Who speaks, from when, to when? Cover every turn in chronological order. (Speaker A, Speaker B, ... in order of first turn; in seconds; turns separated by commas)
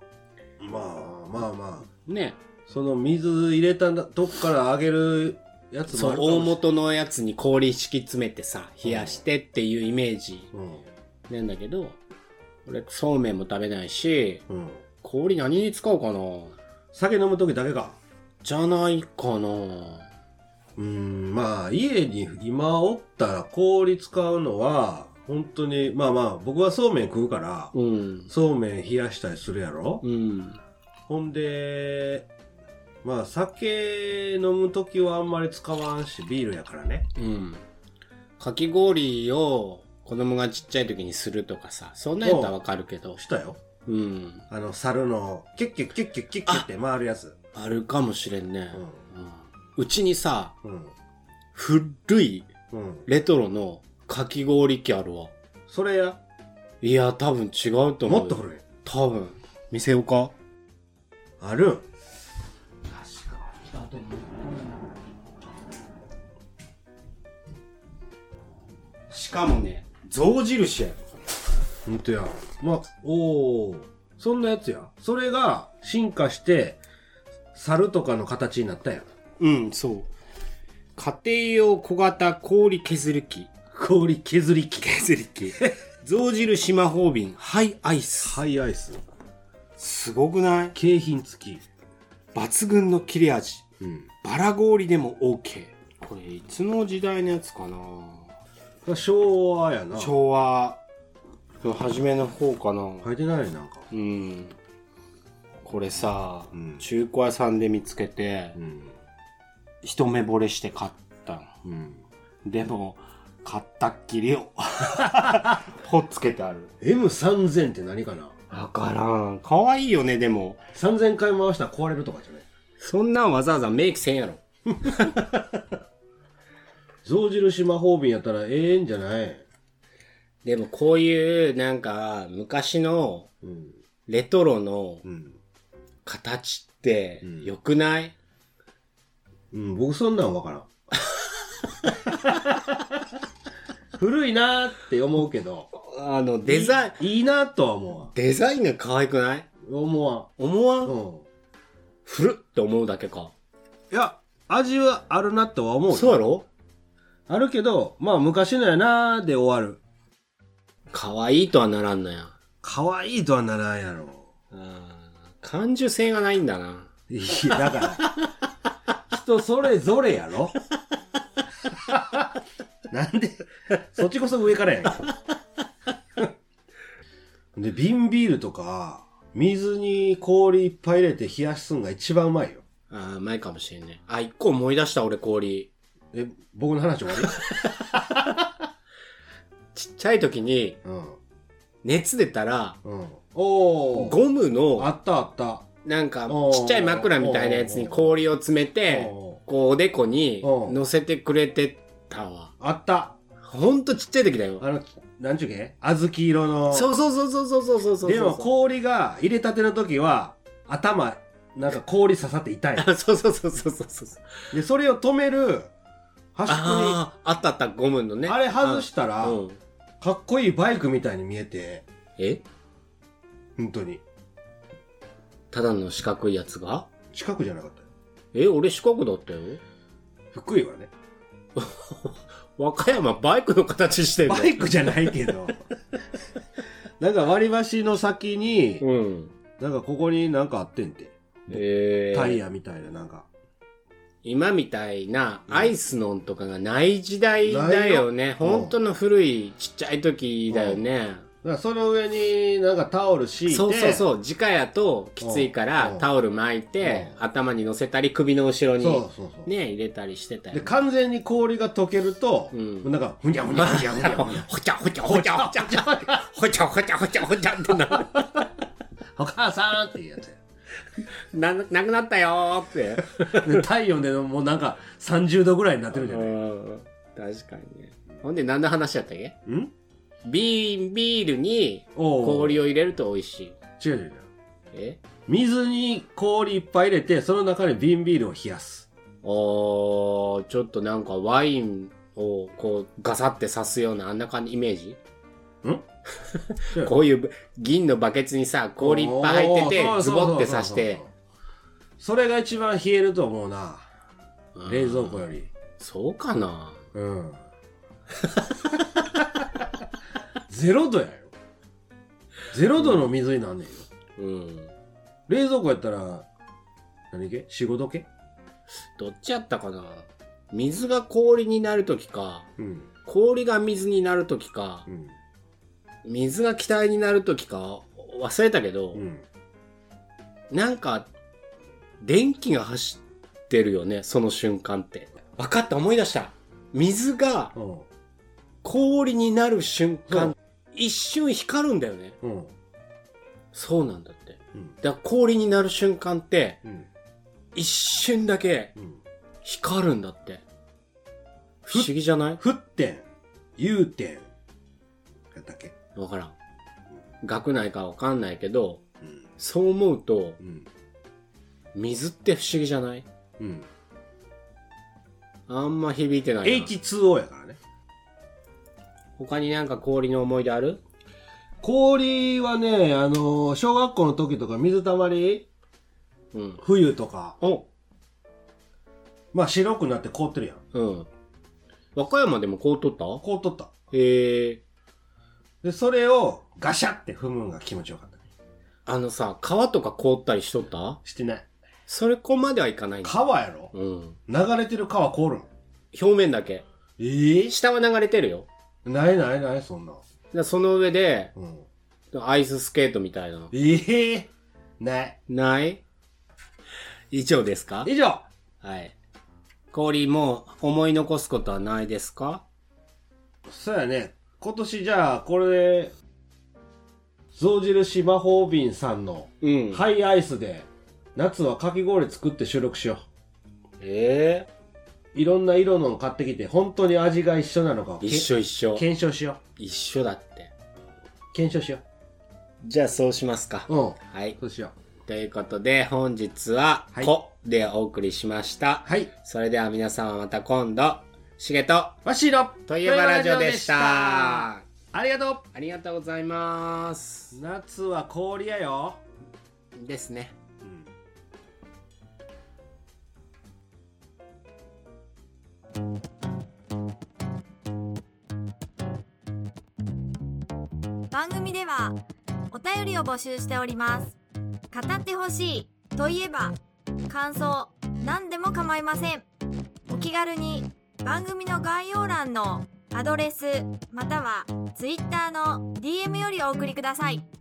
Speaker A: 0.6-1.9, Speaker B: 2.0-2.4, Speaker A: 2.7-6.6, Speaker B: 5.9-10.5, Speaker A: 8.8-9.2, Speaker A: 10.5-10.8, Speaker B: 11.3-12.0, Speaker B: 12.7-14.4, Speaker A: 14.5-14.8, Speaker B: 15.0-16.6, Speaker A: 16.9-18.0, Speaker B: 18.4-20.1, Speaker A: 20.8-27.7, Speaker B: 27.7-28.3, Speaker A: 28.3-30.0, Speaker B: 30.0-30.6, Speaker A: 31.1-32.3, Speaker A: 33.0-37.0, Speaker B: 37.1-37.6, Speaker B: 38.4-43.2, Speaker A: 42.2-42.6, Speaker A: 43.1-43.6, Speaker B: 43.9-44.4, Speaker A: 44.5-47.4, Speaker B: 47.5-50.5, Speaker A: 48.7-49.0, Speaker A: 50.6-50.9, Speaker B: 51.5-52.5, Speaker A: 52.7-53.0, Speaker B: 53.0-55.3, Speaker A: 55.7-56.2, Speaker B: 56.8-60.3, Speaker A: 58.0-58.6, Speaker A: 61.4-61.8, Speaker B: 62.9-64.8, Speaker B: 69.1-71.0, Speaker A: 71.8-76.8, Speaker A: 77.5-79.0, Speaker B: 79.4-80.1, Speaker B: 81.0-83.5, Speaker A: 83.7-85.7, Speaker B: 84.8-88.4, Speaker A: 88.2-89.0, Speaker B: 89.8-90.8, Speaker A: 90.7-91.6, Speaker B: 92.3-93.6, Speaker A: 93.8-94.1, Speaker B: 94.2-98.3, Speaker A: 98.8-100.1, Speaker B: 99.9-100.8, Speaker B: 101.6-103.1, Speaker A: 103.0-103.8, Speaker B: 103.9-104.5, Speaker B: 105.6-108.6, Speaker A: 106.5-106.8, Speaker A: 108.5-108.9, Speaker B: 109.8-111.5, Speaker A: 111.6-112.0, Speaker B: 112.4-116.7, Speaker A: 116.8-118.5, Speaker B: 118.5-120.6, Speaker A: 120.7-122.5, Speaker B: 122.8-125.3, Speaker A: 127.0-129.4, Speaker B: 130.4-133.3, Speaker A: 133.4-133.7, Speaker B: 134.1-135.0, Speaker A: 135.0-135.3, Speaker B: 136.1-138.1, Speaker A: 137.2-137.5, Speaker A: 139.5-140.7, Speaker A: 142.1-142.8, Speaker A: 144.0-145.7, Speaker B: 145.7-147.0, Speaker A: 146.4-148.1, Speaker B: 148.1-149.5, Speaker A: 149.6-150.3, Speaker B: 150.4-150.9, Speaker A: 150.8-151.2, Speaker B: 152.1-153.3, Speaker A: 153.9-156.2, Speaker B: 155.9-156.4, Speaker A: 157.3-159.8, Speaker B: 160.9-162.3, Speaker A: 162.6-164.3, Speaker B: 164.5-166.9, Speaker A: 167.1-168.1, Speaker A: 169.1-170.5, Speaker A: 171.7-172.3, Speaker A: 172.9-175.0, Speaker A: 177.5-182.6, Speaker B: 182.9-185.7, Speaker A: 186.1-187.3, Speaker A: 187.9-188.4, Speaker B: 189.7-190.8, Speaker A: 190.8-191.2, Speaker B: 191.8-192.8, Speaker A: 192.8-194.2, Speaker B: 193.9-194.9, Speaker A: 194.8-195.7, Speaker B: 195.8-202.5, Speaker A: 196.3-198.2, Speaker A: 198.9-199.4, Speaker A: 200.4-200.8, Speaker A: 202.6-203.2, Speaker B: 203.4-204.6, Speaker A: 204.6-206.9, Speaker B: 206.7-208.5, Speaker A: 208.0-212.9, Speaker B: 212.8-214.2, Speaker A: 214.5-215.7, Speaker A: 216.3-217.0, Speaker B: 216.5-219.6, Speaker A: 218.2-219.4, Speaker A: 220.0-221.8, Speaker A: 223.6-224.0, Speaker B: 225.5-226.9, Speaker A: 227.1-227.9, Speaker B: 228.3-229.6, Speaker A: 230.3-230.9, Speaker B: 231.6-234.9, Speaker A: 234.2-235.6, Speaker A: 237.0-238.8, Speaker B: 238.8-239.3, Speaker A: 239.6-243.3, Speaker B: 241.5-242.4, Speaker B: 244.2-251.2, Speaker A: 245.5-245.7, Speaker A: 247.4-248.8, Speaker A: 250.5-250.8, Speaker A: 251.4-254.0, Speaker B: 253.5-260.7, Speaker A: 255.2-256.1, Speaker A: 256.8-257.1, Speaker A: 258.8-259.5, Speaker A: 260.5-264.4, Speaker B: 262.5-262.9, Speaker B: 263.5-268.3, Speaker A: 265.0-266.2, Speaker A: 269.1-270.4, Speaker B: 271.3-273.6, Speaker A: 273.2-276.4, Speaker B: 275.9-279.4, Speaker A: 279.4-279.7, Speaker B: 280.2-283.5, Speaker A: 281.9-282.6, Speaker A: 283.8-284.2, Speaker B: 284.7-285.0, Speaker A: 285.3-288.9, Speaker B: 289.2-295.0, Speaker B: 296.2-301.0, Speaker A: 298.8-301.1, Speaker A: 302.0-303.9, Speaker B: 304.5-305.2, Speaker A: 304.7-305.5, Speaker B: 305.8-306.8, Speaker A: 306.9-307.4, Speaker B: 308.2-308.5, Speaker A: 310.5-311.3, Speaker A: 312.5-313.8, Speaker B: 314.2-314.7, Speaker A: 315.3-316.3, Speaker A: 317.1-318.1, Speaker B: 318.9-322.5, Speaker A: 322.6-322.9, Speaker B: 323.0-324.9, Speaker B: 326.0-329.0, Speaker A: 328.9-329.2, Speaker B: 330.5-331.1, Speaker B: 332.0-337.5, Speaker A: 337.5-337.9, Speaker B: 338.6-342.1, Speaker A: 340.1-340.3, Speaker A: 342.2-342.5, Speaker B: 343.5-346.6, Speaker B: 347.5-348.7, Speaker B: 349.4-350.4, Speaker B: 351.6-352.4, Speaker A: 351.7-353.0, Speaker A: 353.6-354.3, Speaker A: 355.3-355.7, Speaker B: 355.9-356.3, Speaker B: 357.2-358.8, Speaker B: 359.4-360.4, Speaker A: 360.4-360.6, Speaker B: 361.7-363.0, Speaker A: 363.4-363.7, Speaker B: 365.5-366.7, Speaker A: 366.4-367.6, Speaker B: 369.2-370.8, Speaker A: 371.6-375.5, Speaker B: 376.3-376.6, Speaker A: 376.6-377.4, Speaker B: 377.4-377.6, Speaker A: 379.3-380.6, Speaker B: 380.7-381.1, Speaker B: 381.9-383.2, Speaker A: 383.2-383.7, Speaker B: 383.9-384.6, Speaker A: 385.6-388.2, Speaker B: 388.9-391.0, Speaker A: 391.0-391.5, Speaker B: 391.9-394.2, Speaker A: 393.0-393.7, Speaker A: 394.3-395.5, Speaker B: 395.9-396.6, Speaker A: 397.0-397.5, Speaker B: 397.5-398.5, Speaker A: 398.8-400.0, Speaker B: 400.3-401.3, Speaker A: 401.4-401.6, Speaker B: 402.1-403.5, Speaker A: 403.5-405.2, Speaker B: 405.3-405.8, Speaker B: 407.1-407.9, Speaker A: 407.8-408.3, Speaker B: 408.6-408.9, Speaker B: 409.7-412.4, Speaker A: 413.4-415.9, Speaker A: 417.3-423.0, Speaker B: 419.4-419.9, Speaker B: 423.8-424.5, Speaker A: 425.1-429.4, Speaker B: 428.0-428.8, Speaker B: 429.6-430.5, Speaker A: 431.3-431.8, Speaker B: 432.6-434.4, Speaker A: 433.7-434.7, Speaker B: 435.1-442.0, Speaker A: 438.8-439.1, Speaker A: 442.0-445.4, Speaker B: 442.7-444.6, Speaker B: 445.5-447.4, Speaker A: 447.3-449.0, Speaker B: 449.7-450.3, Speaker A: 450.6-450.9, Speaker C: 461.1-461.9, Speaker C: 462.5-464.1, Speaker C: 464.7-466.6, Speaker C: 467.1-469.2, Speaker C: 469.9-477.2